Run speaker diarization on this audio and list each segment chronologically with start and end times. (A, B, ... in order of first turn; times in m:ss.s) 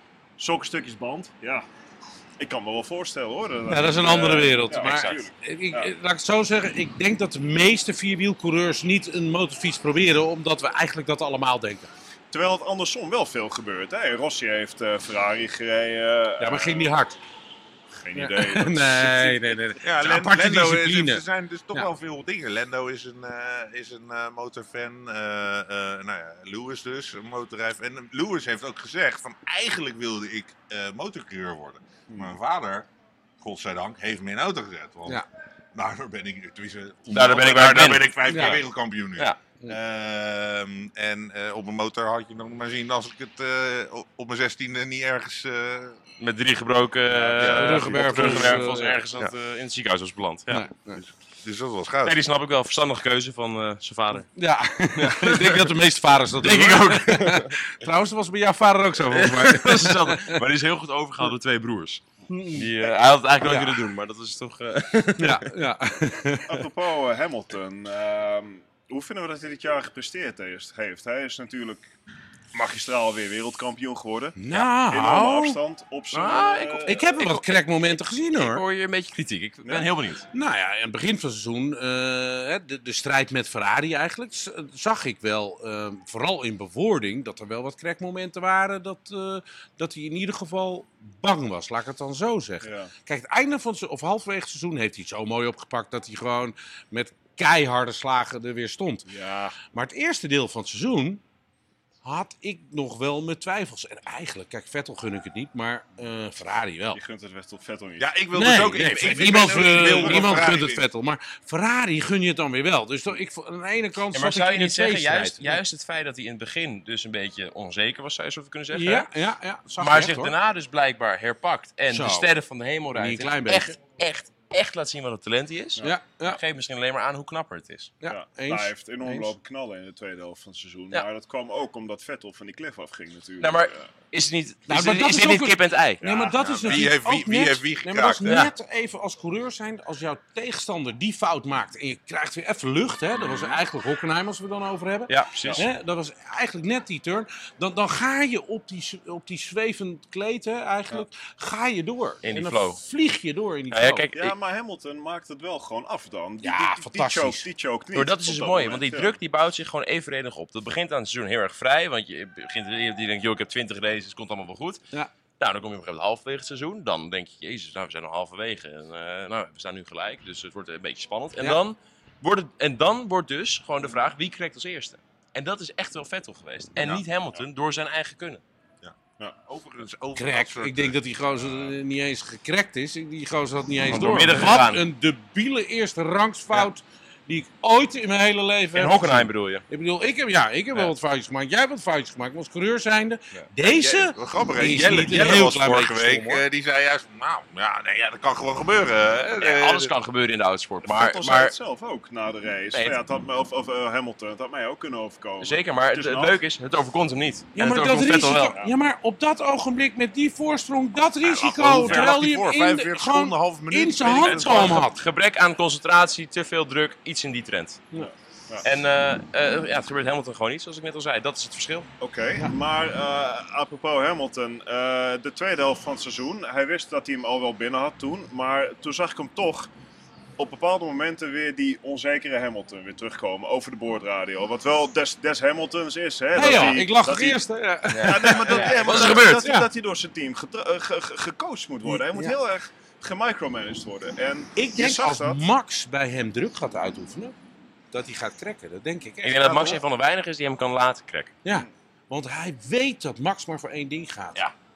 0:00.4-0:01.6 A
0:02.4-0:05.9 A
0:03.7-0:11.9 B
0:04.7-0:05.2 C
0:12.3-0:16.9 A
0:16.4-0:17.2 B
0:18.0-0:19.6 A
0:18.1-0:21.2 B
0:19.8-0:32.9 D
0:33.4-0:35.2 D
0:35.7-0:46.0 D
0:37.1-0:38.6 C
0:38.3-0:38.6 B
0:46.2-0:50.6 C
0:47.4-0:48.6 D
0:47.4-0:49.0 B
0:50.5-0:51.0 B
0:51.0-0:52.2 D
0:52.0-0:54.3 C
0:54.3-1:00.4 B
0:54.9-0:55.7 C
0:56.4-0:57.5 C
0:59.1-1:02.0 C
1:02.3-1:02.7 B
1:02.5-1:05.5 C
1:03.4-1:03.8 B
1:05.2-1:06.6 B
1:06.5-1:11.8 A
1:12.5-1:17.0 A
1:14.4-1:15.6 B
1:16.1-1:20.2 C
1:16.8-1:18.6 B
1:19.6-1:19.9 A
1:20.3-1:39.1 B
1:32.6-1:32.9 A
1:39.1-1:39.6 A
1:39.6-1:41.2 B
1:42.0-1:47.0 B
1:46.9-1:48.2 A
1:48.0-1:50.8 D
1:48.3-1:55.6 B
1:49.6-1:50.2 C
1:54.1-1:59.1 C
1:58.7-2:00.3 B
1:59.8-2:07.9 C
2:01.9-2:02.3 B
2:02.9-2:03.8 B
2:05.8-2:06.4 B
2:08.0-2:09.3 B
2:08.0-2:13.9 A
2:13.4-2:16.0 C
2:14.7-2:34.1 B
2:16.0-2:16.8 A
2:16.3-2:18.4 D
2:18.2-2:18.5 C
2:23.1-2:23.6 C
2:25.1-2:25.6 C
2:25.4-2:25.6 A
2:32.2-2:32.8 C
2:33.7-2:34.3 C
2:34.1-2:39.1 A
2:36.4-2:37.5 B
2:37.9-2:44.8 C
2:45.4-2:58.4 C
2:58.8-3:01.0 D
3:00.2-3:16.4 B
3:03.9-3:04.8 C
3:08.7-3:09.6 C
3:13.6-3:19.9 D
3:19.4-3:21.5 C
3:20.8-3:26.4 A
3:22.7-3:23.0 C
3:25.4-3:28.6 C
3:27.5-3:35.0 B
3:28.3-3:28.7 A
3:31.2-3:32.1 C
3:31.3-3:34.8 D
3:34.2-3:37.8 C
3:38.0-3:38.6 A
3:38.6-3:41.9 C
3:42.0-3:49.7 A
3:50.4-3:57.4 A
3:56.3-3:59.7 B
3:57.9-3:59.4 C
3:57.9-4:05.4 A
4:01.8-4:02.4 B
4:04.6-4:07.3 B
4:07.9-4:09.8 B
4:09.2-4:11.3 C
4:11.4-4:14.4 B